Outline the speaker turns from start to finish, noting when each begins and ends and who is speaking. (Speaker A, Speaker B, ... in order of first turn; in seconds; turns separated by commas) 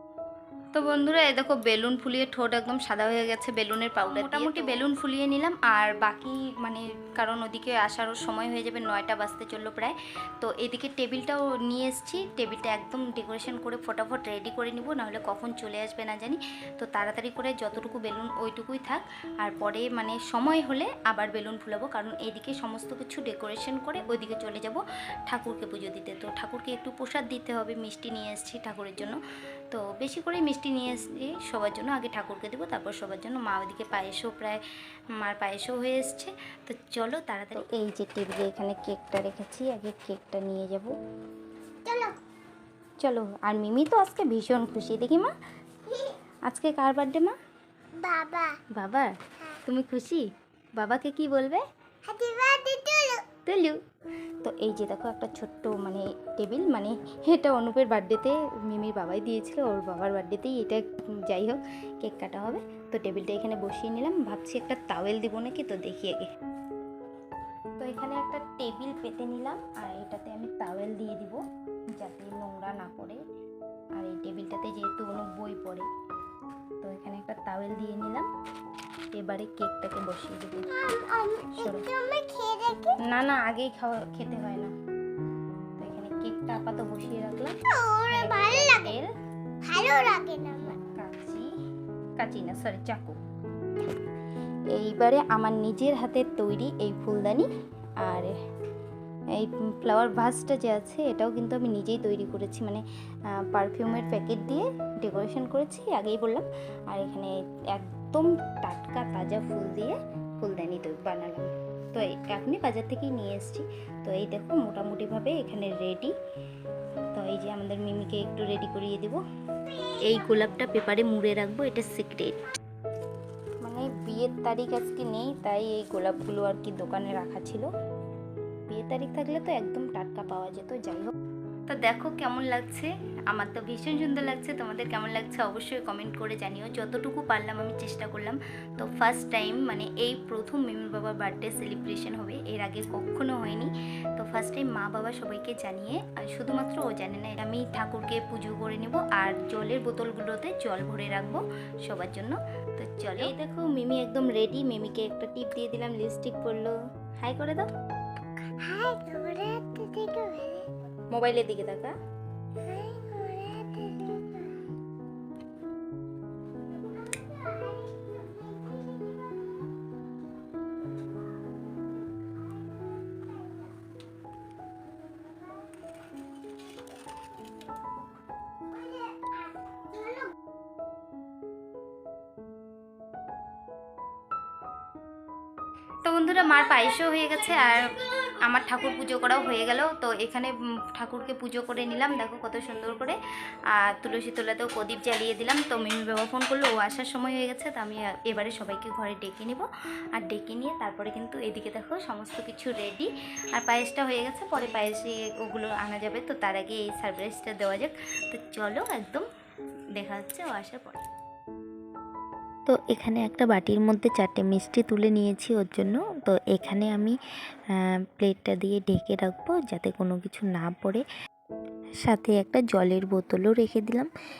Speaker A: 0.7-29.2, Speaker B: 4.0-4.7, Speaker A: 29.7-34.6, Speaker A: 35.2-40.9, Speaker C: 41.9-42.2, Speaker A: 43.0-45.3, Speaker A: 46.5-47.4, Speaker C: 48.0-48.6, Speaker A: 48.8-51.6, Speaker C: 52.1-53.2, Speaker A: 53.4-53.8, Speaker A: 54.4-66.3, Speaker A: 67.8-73.2, Speaker A: 74.0-75.9, Speaker A: 76.8-78.3, Speaker A: 79.2-80.7, Speaker C: 80.7-82.9, Speaker A: 81.6-81.8, Speaker A: 83.0-84.7, Speaker A: 85.8-87.5, Speaker A: 88.1-89.1, Speaker C: 89.7-90.6, Speaker A: 90.7-91.5, Speaker A: 92.2-93.2, Speaker A: 94.7-97.5, Speaker A: 98.0-98.3, Speaker A: 99.4-102.8, Speaker A: 103.5-116.1, Speaker A: 117.1-119.2, Speaker A: 120.0-122.4, Speaker A: 123.6-127.7, Speaker A: 128.7-131.1, Speaker A: 131.7-157.7, Speaker C: 158.6-160.7, Speaker A: 161.1-161.9, Speaker C: 162.7-164.5, Speaker C: 167.1-169.3, Speaker A: 186.0-193.2, Speaker A: 193.7-209.2, Speaker A: 209.9-211.0, Speaker B: 212.7-217.2, Speaker B: 217.7-221.0, Speaker B: 222.0-224.1